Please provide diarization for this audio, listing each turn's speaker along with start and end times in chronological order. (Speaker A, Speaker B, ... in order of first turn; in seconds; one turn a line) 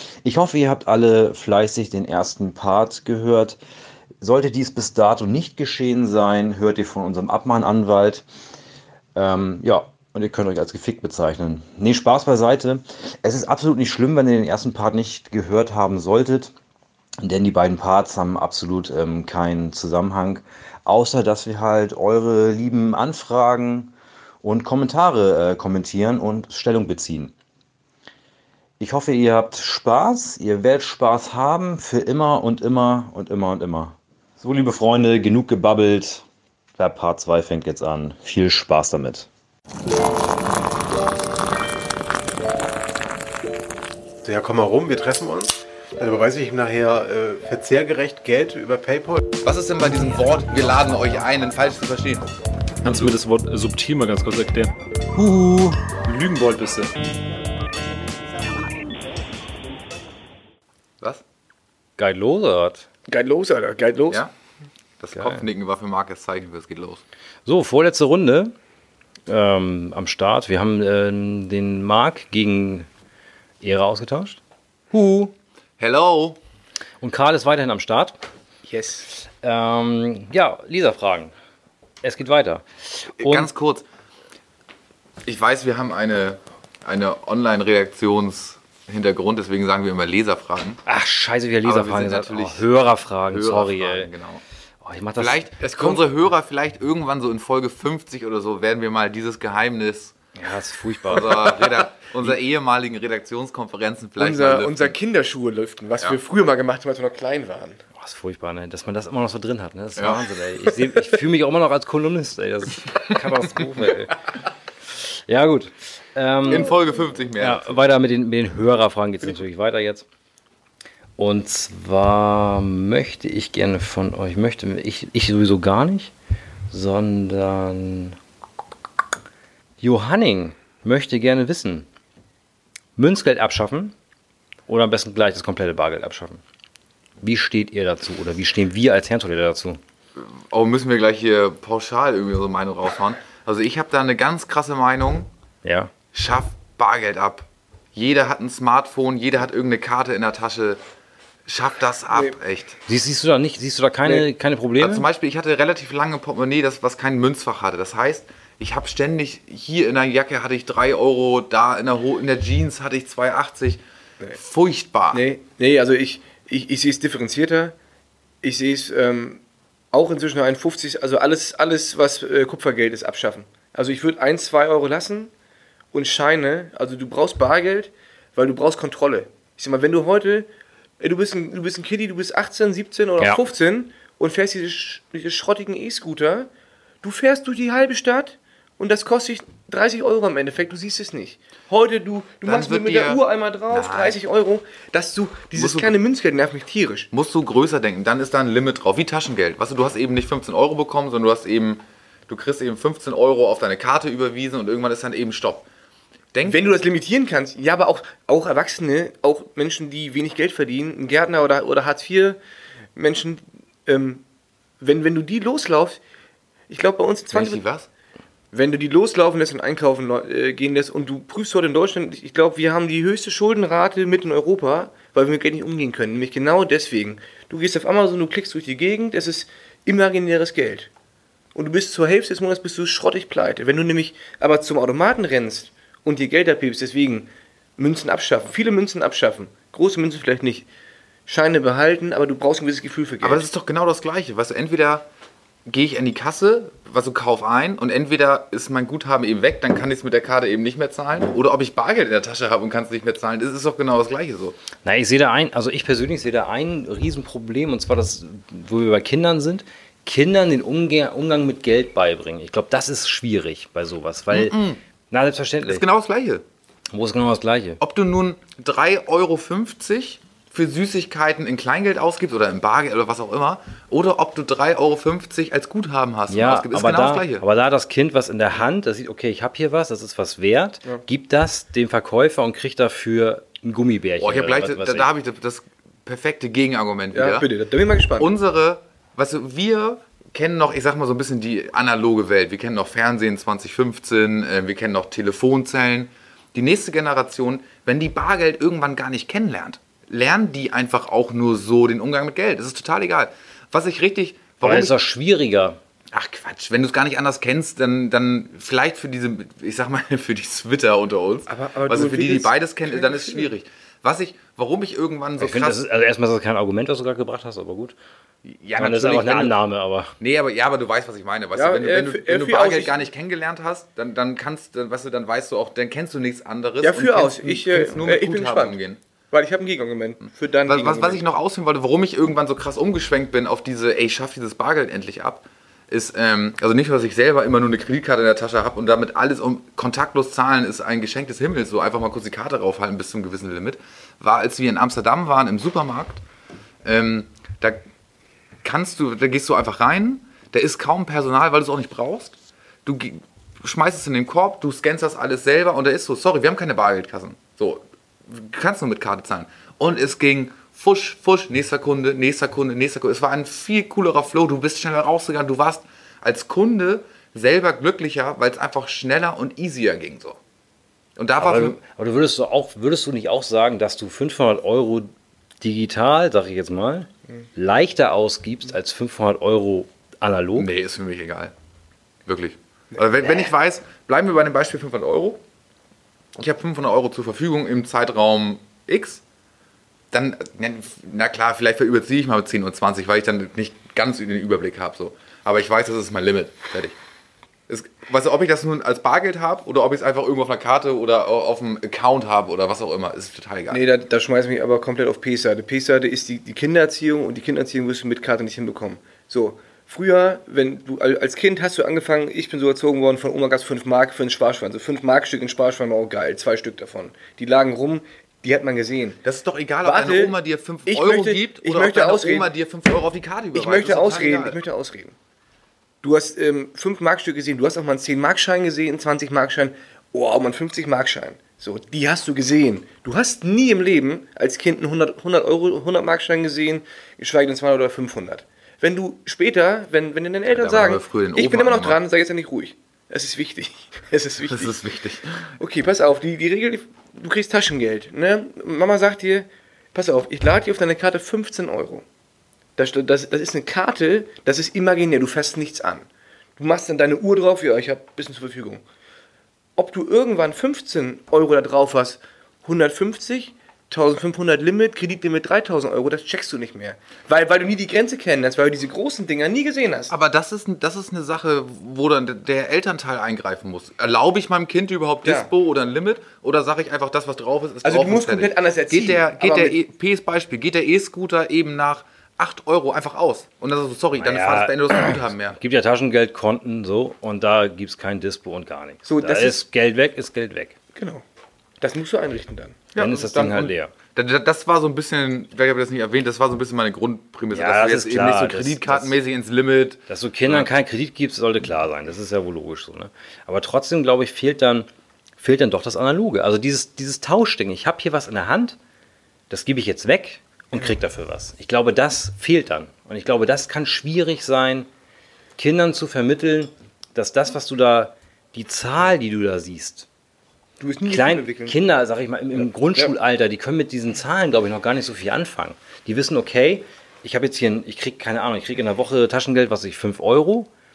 Speaker A: 0.2-3.6
Speaker A: 4.2-8.2
Speaker A: 9.1-16.5
Speaker A: 17.2-23.9
Speaker A: 24.4-27.3
Speaker A: 28.8-36.2
Speaker A: 36.8-39.3
Speaker B: 44.2-49.2
Speaker C: 49.4-52.3
Speaker D: 52.8-54.7
Speaker C: 52.8-53.1
Speaker A: 55.1-55.8
Speaker D: 56.0-56.9
Speaker A: 62.0-62.9
Speaker E: 63.1-64.2
Speaker C: 65.0-67.0
Speaker A: 65.1-65.4
Speaker A: 67.5-68.5
Speaker A: 69.3-72.9
Speaker A: 73.6-74.4
Speaker A: 74.9-75.3
Speaker C: 75.8-76.4
Speaker A: 77.0-78.2
Speaker E: 78.7-79.1
Speaker A: 79.2-81.3
Speaker A: 82.0-83.5
Speaker C: 83.2-83.8
Speaker C: 85.2-90.8
Speaker A: 90.8-94.1
Speaker C: 91.6-92.7
Speaker C: 93.3-94.4
Speaker A: 94.8-95.5
Speaker C: 95.2-100.1
Speaker E: 95.6-96.0
Speaker A: 100.3-101.5
Speaker C: 101.1-105.0
Speaker E: 104.2-107.8
Speaker A: 108.0-114.2
Speaker C: 110.0-110.2
Speaker A: 115.0-116.7
Speaker C: 116.5-117.9
Speaker A: 117.4-120.0
Speaker A: 121.2-126.1
Speaker A: 126.7-128.2
Speaker A: 129.8-131.9
Speaker A: 133.0-133.9
Speaker A: 134.7-136.4
Speaker A: 137.2-139.8
Speaker C: 140.2-145.3
Speaker A: 145.6-145.9
Speaker C: 146.1-150.8
Speaker C: 151.5-152.8
Speaker A: 152.9-155.1
Speaker C: 154.8-163.8
Speaker C: 164.3-165.2
Speaker E: 165.1-167.7
Speaker E: 168.4-169.4
Speaker E: 169.9-175.3
Speaker E: 175.9-180.5
Speaker E: 181.0-186.5
Speaker E: 187.0-197.1
Speaker C: 192.4-194.2
Speaker C: 195.5-195.9
Speaker C: 197.1-205.7
Speaker C: 206.3-206.8
Speaker E: 206.4-212.4
Speaker E: 212.9-214.2
Speaker E: 214.8-216.0
Speaker E: 216.7-217.6
Speaker C: 217.3-217.9
Speaker E: 218.5-230.9
Speaker E: 231.5-240.7
Speaker E: 241.3-243.4
Speaker C: 243.2-245.1
Speaker C: 245.7-254.6
Speaker A: 254.8-264.6
Speaker C: 264.3-264.8
Speaker A: 265.1-265.8
Speaker C: 265.6-266.4
Speaker A: 266.9-267.8
Speaker C: 267.8-277.4
Speaker A: 276.3-285.1
Speaker C: 284.2-287.5
Speaker E: 287.1-288.3
Speaker C: 288.2-304.9
Speaker A: 304.6-305.8
Speaker C: 306.1-315.8
Speaker E: 311.5-313.5
Speaker A: 315.4-317.9
Speaker C: 318.4-319.5
Speaker A: 318.8-320.1
Speaker C: 320.2-329.0
Speaker E: 321.5-323.0
Speaker E: 326.8-328.8
Speaker E: 329.3-331.2
Speaker C: 330.6-346.2
Speaker C: 346.8-347.8
Speaker C: 348.6-370.4
Speaker C: 371.2-371.8
Speaker A: 371.4-380.7
Speaker C: 380.6-381.5
Speaker C: 382.2-385.4
Speaker C: 386.4-389.2
Speaker C: 390.1-397.0
Speaker C: 397.7-403.9
Speaker E: 403.7-419.2
Speaker C: 419.2-424.6
Speaker E: 419.8-420.3
Speaker E: 420.9-422.5
Speaker E: 423.5-425.1
Speaker E: 426.0-444.7
Speaker C: 440.5-442.0
Speaker C: 444.4-445.5
Speaker E: 445.6-452.0
Speaker E: 452.8-456.1
Speaker E: 456.6-458.8
Speaker E: 459.8-470.1
Speaker C: 470.1-485.6
Speaker E: 477.8-479.8
Speaker A: 484.2-490.7
Speaker E: 489.0-489.6
Speaker E: 490.9-491.2
Speaker E: 491.8-493.6
Speaker A: 492.9-493.9
Speaker C: 492.9-500.7
Speaker A: 497.5-499.2
Speaker A: 500.1-504.9
Speaker A: 505.4-508.8
Speaker A: 509.5-514.9
Speaker A: 515.6-520.1
Speaker E: 520.8-521.8
Speaker A: 521.0-530.7
Speaker E: 522.6-523.1